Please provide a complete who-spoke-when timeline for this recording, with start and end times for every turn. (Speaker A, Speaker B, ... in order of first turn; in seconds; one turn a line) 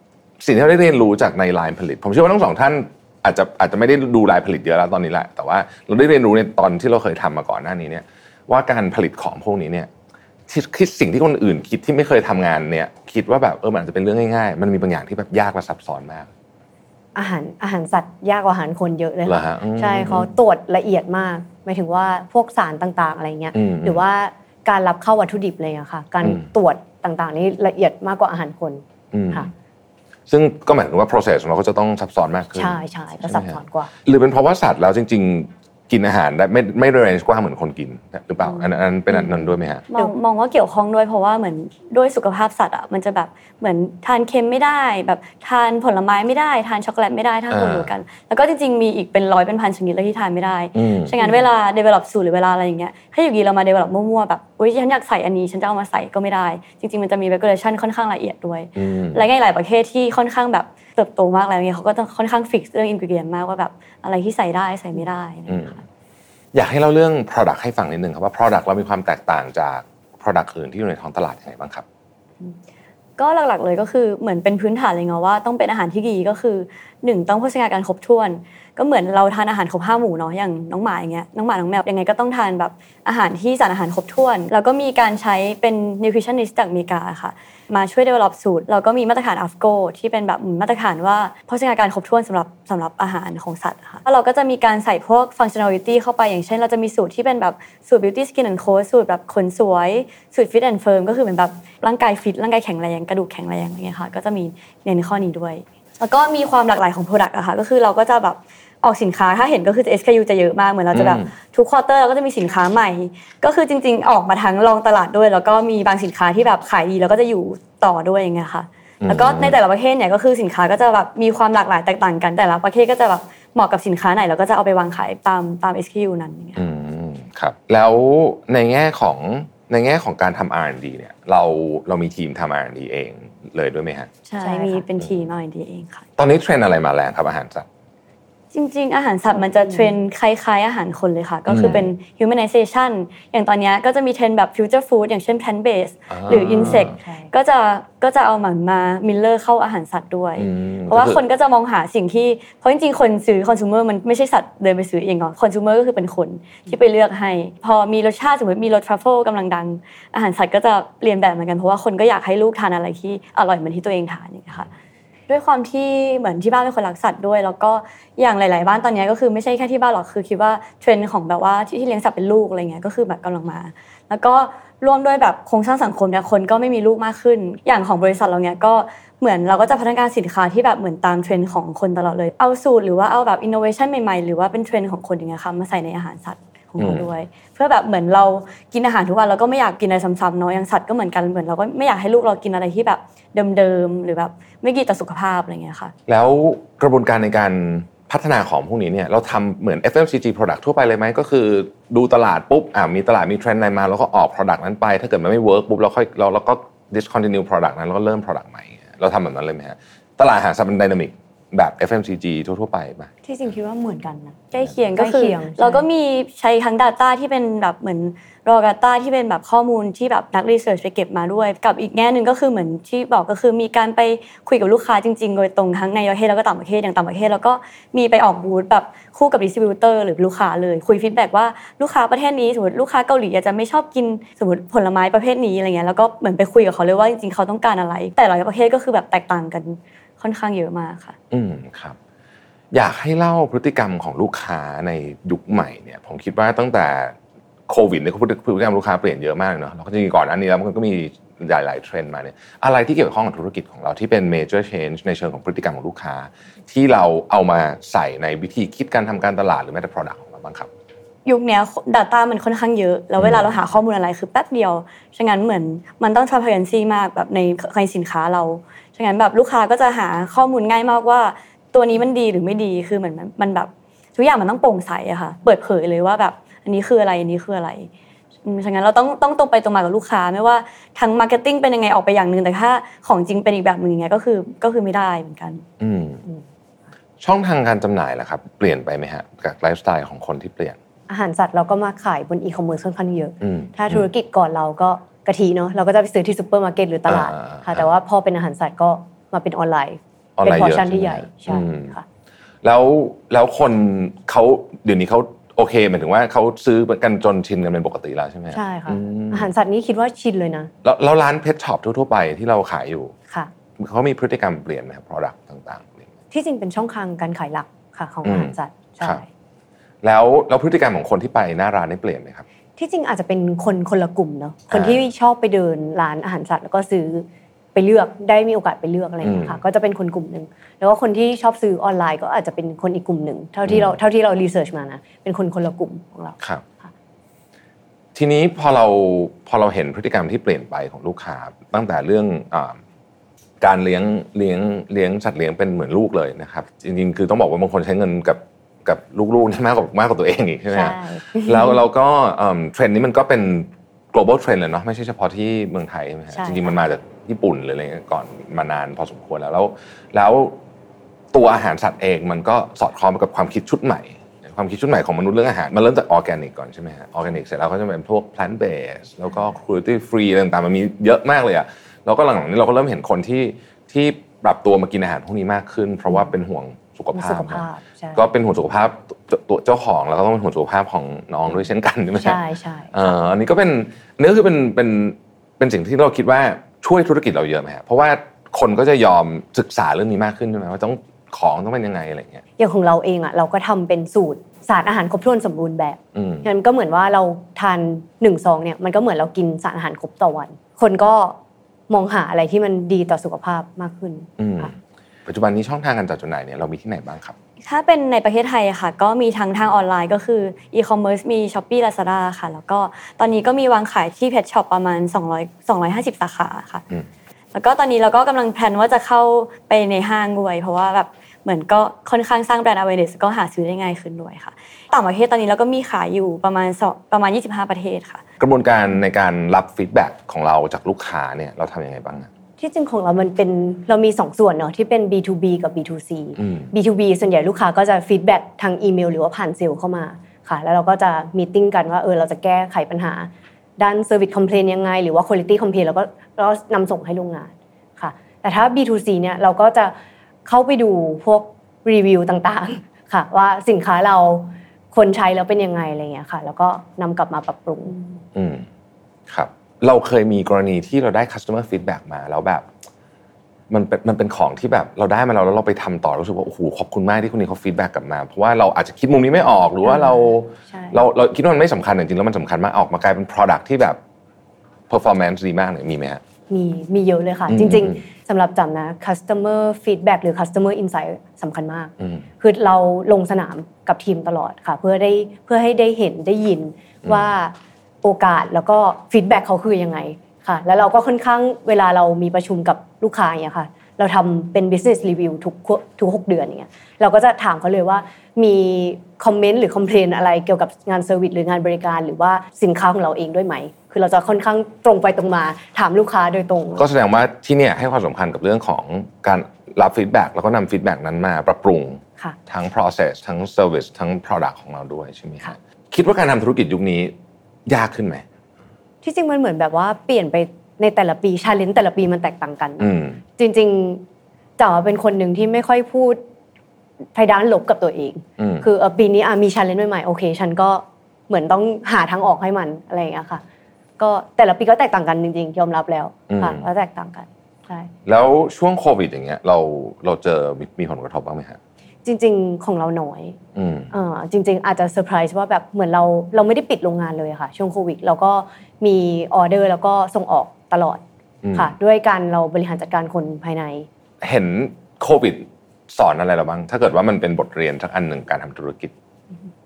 Speaker A: 0.4-9.9
Speaker A: 10.5-16.3
Speaker B: 17.1-29.5
Speaker A: 19.3-20.3
Speaker A: 23.5-24.0
Speaker A: 29.1-29.5
Speaker A: 30.3-39.8
Speaker B: 32.5-33.9
Speaker C: 39.9-65.8
Speaker A: 47.5-47.9
Speaker A: 50.8-51.1
Speaker A: 58.8-59.2
Speaker A: 65.5-65.8
Speaker A: 66.5-71.8
Speaker C: 73.2-126.6
Speaker A: 110.9-111.3
Speaker A: 119.0-119.6
Speaker A: 126.6-134.1
Speaker C: 134.3-136.1
Speaker B: 134.4-134.8
Speaker A: 136.2-137.7
Speaker C: 138.5-164.7
Speaker B: 139.5-139.9
Speaker A: 141.5-141.9
Speaker A: 146.1-146.9
Speaker B: 147.0-147.3
Speaker A: 150.4-151.2
Speaker C: 165.3-195.9
Speaker A: 186.8-187.1
Speaker A: 196.1-213.1
Speaker B: 213.2-215.8
Speaker C: 214.5-241.2
Speaker A: 241.3-242.0
Speaker A: 242.7-247.2
Speaker A: 247.7-260.7
Speaker C: 261.2-277.9
Speaker A: 263.2-263.5
Speaker C: 278.4-285.6
Speaker A: 285.8-286.2
Speaker A: 287.2-290.8
Speaker B: 291.1-302.0
Speaker A: 293.4-294.1
Speaker A: 297.1-297.9
Speaker A: 300.4-301.9
Speaker A: 302.6-309.5
Speaker B: 308.5-310.7
Speaker A: 310.8-313.1
Speaker A: 313.8-316.1
Speaker B: 316.3-319.2
Speaker A: 318.2-319.2
Speaker A: 320.0-322.4
Speaker B: 322.8-336.9
Speaker A: 324.7-325.1
Speaker A: 329.2-329.6
Speaker A: 333.7-334.0
Speaker A: 338.1-342.8
Speaker A: 343.6-360.6
Speaker B: 350.7-351.8
Speaker B: 356.3-356.7
Speaker A: 361.3-382.4
Speaker B: 377.1-378.3
Speaker B: 382.2-383.2
Speaker A: 382.9-392.4
Speaker B: 392.6-401.4
Speaker A: 396.1-396.5
Speaker B: 401.9-404.7
Speaker A: 404.4-407.4
Speaker C: 407.6-416.8
Speaker C: 417.5-428.2
Speaker A: 428.4-432.3
Speaker B: 432.6-458.0
Speaker A: 436.4-436.7
Speaker A: 458.4-458.7
Speaker A: 459.3-462.7
Speaker A: 463.7-474.0
Speaker B: 469.9-471.0
Speaker A: 474.9-476.2
Speaker B: 476.5-506.9
Speaker A: 477.5-478.0
Speaker A: 482.0-482.3
Speaker A: 506.8-517.1
Speaker A: 517.7-518.2
Speaker B: 519.0-524.0
Speaker A: 522.8-523.2
Speaker B: 524.6-526.2
Speaker B: 527.1-533.4
Speaker A: 528.4-528.7
Speaker B: 534.0-537.9
Speaker A: 536.3-536.6
Speaker A: 538.1-541.6
Speaker B: 542.0-543.4
Speaker A: 543.5-543.9
Speaker B: 543.9-551.0
Speaker A: 551.4-551.7
Speaker B: 551.5-553.9
Speaker A: 554.2-558.9